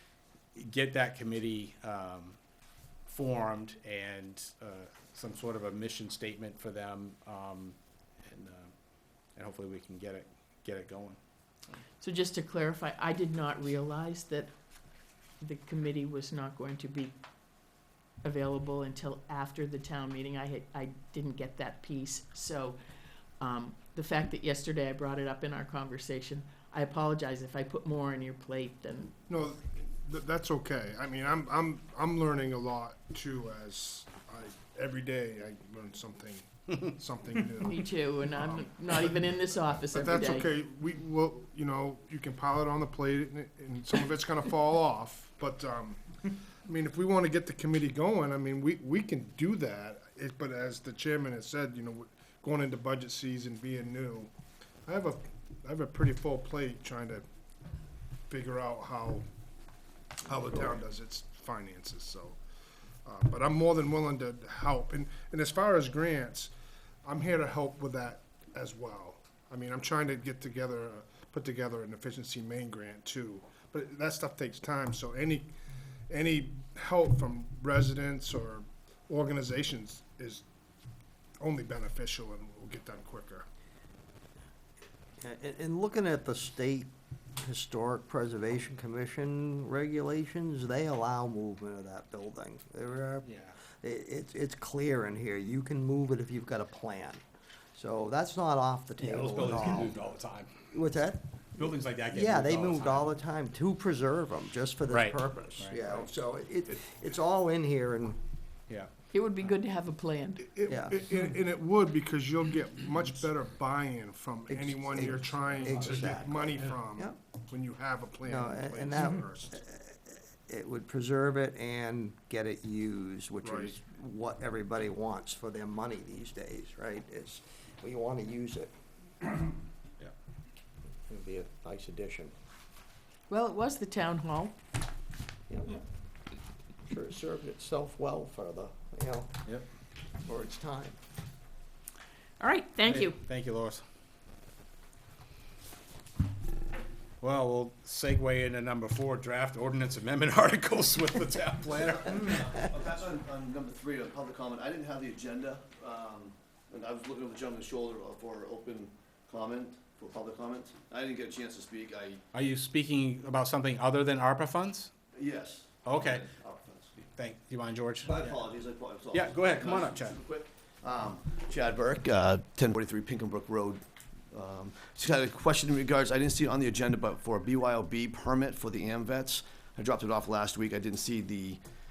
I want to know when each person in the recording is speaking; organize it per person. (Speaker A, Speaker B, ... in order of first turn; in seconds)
Speaker A: 0.6-2.4, 3.1-8.7, 9.3-11.2, 93.2-93.5, 99.0-100.5, 101.6-103.1, 104.9-106.0, 115.8-116.1, 142.9-143.8, 147.2-152.5, 162.3-164.9, 165.8-166.3, 167.0-168.4, 169.1-170.2
Speaker B: 12.0-14.5, 15.4-17.1, 18.2-22.8, 23.4-29.1, 37.6-40.5, 109.1-110.5, 133.3-134.6, 142.4-143.2
Speaker C: 29.3-39.3, 39.9-46.0, 46.7-54.3, 54.9-57.2, 58.3-59.2, 60.2-62.4, 63.1-66.5, 67.0-75.5, 76.1-80.5, 81.4-83.5, 110.4-119.6, 123.4-123.7
Speaker D: 85.2-93.3, 93.8-97.2, 97.8-100.0, 100.7-108.2, 110.7-111.0, 114.5-117.2, 118.2-128.7, 131.1-132.3, 135.5-135.8, 136.9-139.4, 140.2-141.0
Speaker E: 151.8-162.2, 165.2-166.9, 168.1-181.6